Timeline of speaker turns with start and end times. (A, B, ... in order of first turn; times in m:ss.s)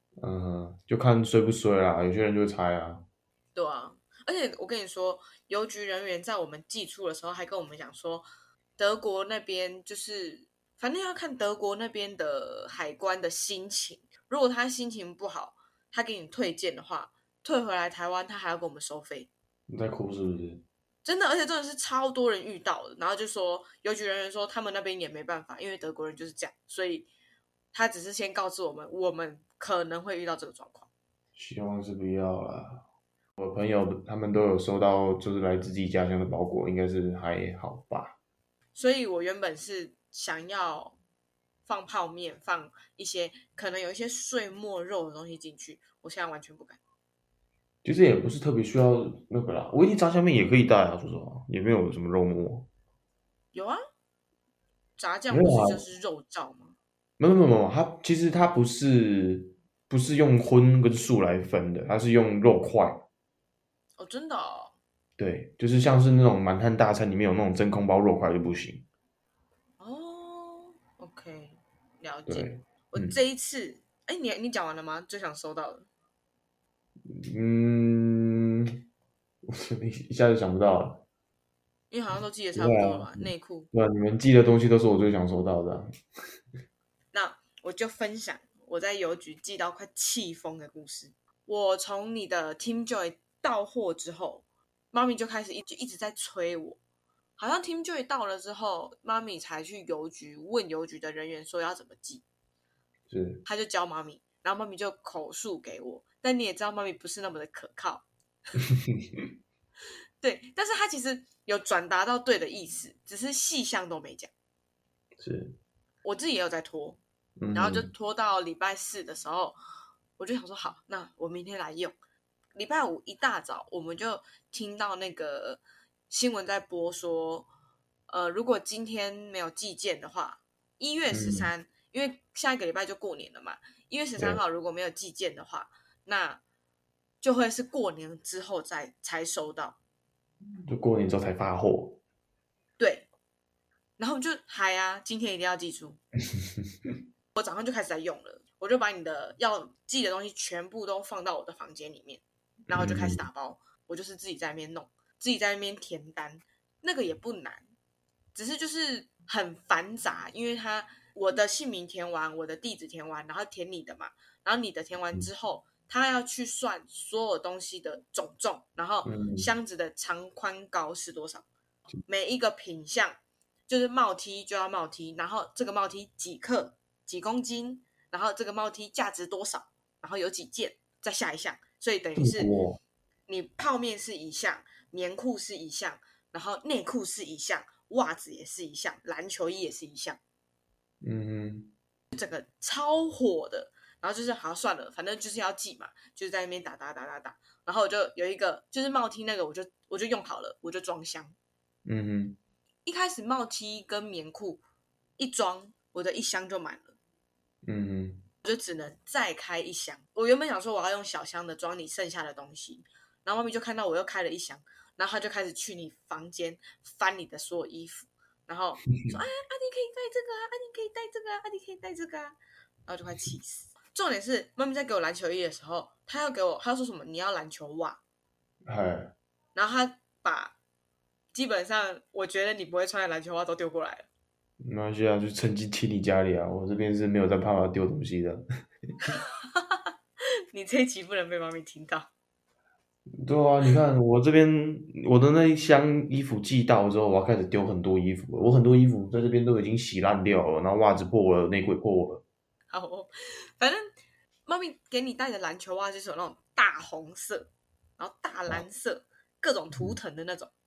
0:00.2-0:03.0 A
0:03.5-0:08.2 B
0:08.8-0:19.3 B
0:19.7-0:20.6 A
0:21.0-0:27.1 B
0:27.7-0:30.9 B
0:31.4-0:32.8 A
0:33.4-0:38.2 A
0:38.7-0:41.0 B
0:41.6-0:46.8 B
0:47.8-0:52.7 A
0:53.5-0:53.8 B
0:55.0-0:56.8 B
0:55.3-0:55.8 A
0:57.2-1:03.0 A
1:04.0-1:04.8 B
1:05.2-1:08.8 A
1:09.8-1:15.9 B
1:12.3-1:13.2 A
1:17.1-1:18.7 A
1:19.5-1:21.0 A
1:21.9-1:23.7 B
1:22.5-1:25.9 A
1:27.1-1:36.8 B
1:37.4-1:42.2 B
1:43.1-1:43.4 A
1:43.4-1:48.0 B
1:50.2-1:54.3 B
1:55.2-1:55.6 A
1:56.0-1:57.0 B
1:57.4-1:57.9 A
1:57.5-1:59.6 B
2:00.2-2:02.0 B
2:02.6-2:07.5 B
2:08.1-2:16.4 B
2:11.1-2:11.5 A
2:17.2-2:19.8 B
2:20.6-2:22.0 A
2:22.8-2:23.1 B
2:24.0-2:26.0 B
2:27.3-2:37.6 B
2:32.7-2:33.3 A
2:38.3-2:51.5 B
2:49.0-2:49.5 A
2:52.0-3:02.5 B
3:02.2-3:02.8 A
3:03.3-3:10.2 B
3:11.0-3:11.7 A
3:12.1-3:21.3 B
3:21.8-3:22.4 A
3:22.8-3:24.6 B
3:25.2-3:27.0 B
3:27.6-3:28.2 A
3:28.4-3:48.0 B
3:48.6-3:49.1 A
3:49.5-3:50.6 B
3:51.3-3:54.1 B
3:54.6-3:58.4 A
3:59.1-3:59.8 B
4:00.5-4:02.1 B
4:03.2-4:12.2 A
4:12.7-4:13.9 B
4:14.5-4:20.5 B